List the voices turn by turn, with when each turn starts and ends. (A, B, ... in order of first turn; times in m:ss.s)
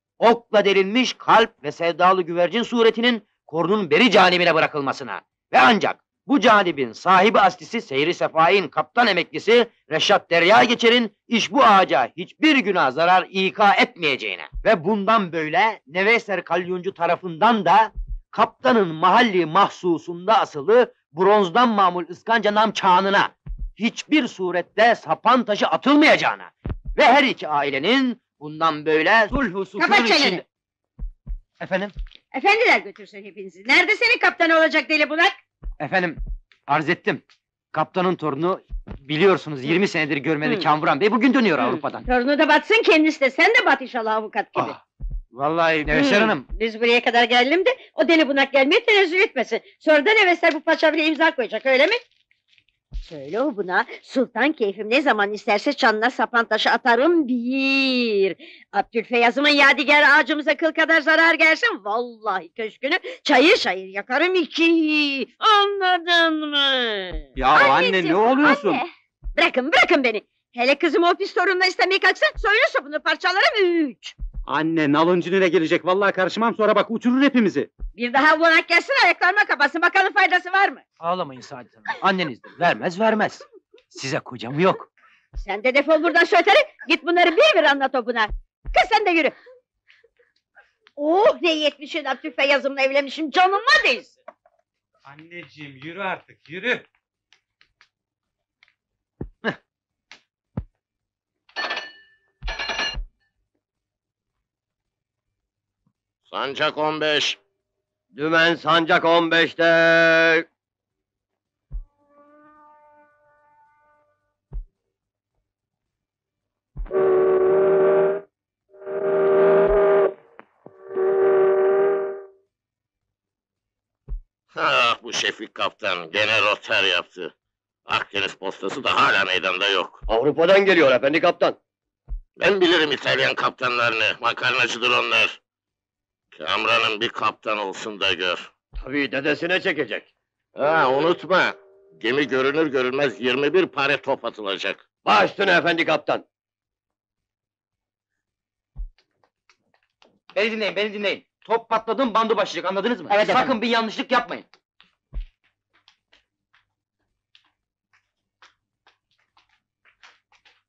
0:00.2-0:30.4 A
0:29.8-0:30.4 B
0:31.6-0:31.9 A
0:32.3-0:35.4 B
0:35.8-0:42.0 A
0:40.4-0:40.7 B
0:41.6-0:44.8 B
0:45.3-0:46.4 A
0:45.9-0:52.0 B
0:53.0-1:07.2 B
1:07.4-1:08.8 C
1:09.3-1:14.1 B
1:14.4-1:17.7 C
1:18.0-1:20.8 B
1:21.0-1:24.9 A
1:25.4-1:29.4 B
1:31.0-1:34.1 B
1:35.1-1:36.8 C
1:46.2-1:47.4 D
1:48.1-1:50.4 E
2:04.5-2:07.3 D
2:07.9-2:10.0 D
2:10.1-2:11.6 E
2:12.4-2:15.4 D
2:16.3-2:18.5 D
2:18.8-2:20.1 E
2:20.6-2:24.8 D
2:25.0-2:26.2 E
2:30.3-2:31.2 C
2:31.4-2:34.4 A
2:33.1-2:33.5 C